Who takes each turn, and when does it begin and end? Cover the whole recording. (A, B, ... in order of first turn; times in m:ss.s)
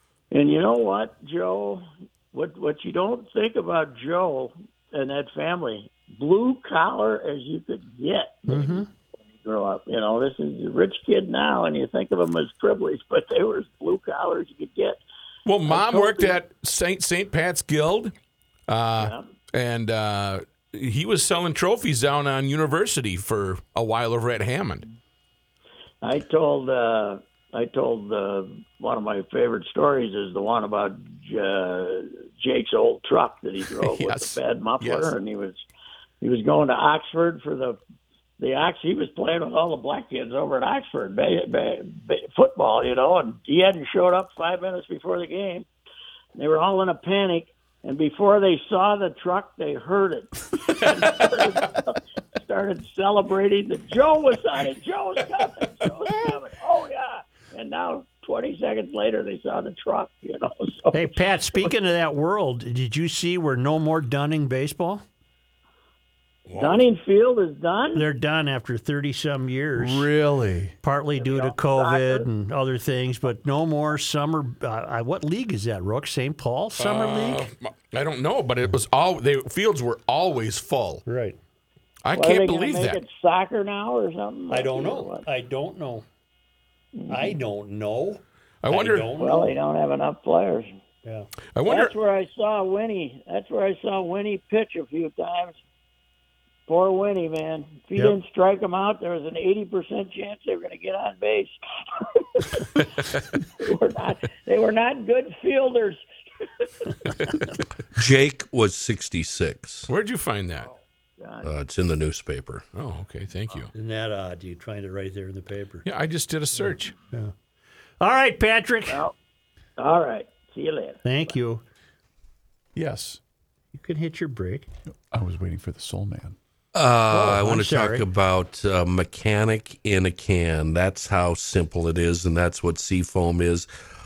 0:00.3-0:15.0 A
0:08.5-0:08.9 B
0:15.5-0:18.1 C
0:15.7-0:16.4 A
0:18.7-0:24.9 C
0:19.0-0:19.3 A
0:26.0-0:35.6 A
0:33.8-0:35.1 C
0:36.2-0:37.8 A
0:38.4-0:45.7 A
0:46.4-1:01.7 A
0:50.8-0:51.4 C
1:00.9-1:05.0 B
1:06.5-1:08.1 A
1:08.0-1:10.1 B
1:09.8-1:10.8 D
1:10.8-1:17.5 B
1:11.2-1:12.3 A
1:16.8-1:21.0 C
1:21.1-1:21.4 B
1:22.0-1:23.0 C
1:22.1-1:25.3 A
1:24.5-1:26.0 B
1:27.0-1:27.4 A
1:27.1-1:29.6 B
1:28.6-1:29.1 C
1:29.2-1:30.8 A
1:31.6-1:31.9 C
1:31.6-1:35.6 A
1:36.7-1:46.0 A
1:42.8-1:43.3 C
1:47.2-1:47.4 C
1:48.0-1:49.9 E
1:49.9-1:50.7 C
1:51.2-1:51.5 A
1:51.4-1:52.7 E
1:52.8-1:53.7 C
1:53.7-1:55.8 B
1:55.8-1:56.9 C
1:58.0-1:59.0 B
1:58.9-1:59.1 A
1:59.8-2:01.4 A
2:01.0-2:01.6 B
2:02.8-2:03.2 D
2:03.7-2:04.7 B
2:05.1-2:06.4 D
2:06.7-2:13.7 E
2:07.1-2:08.0 B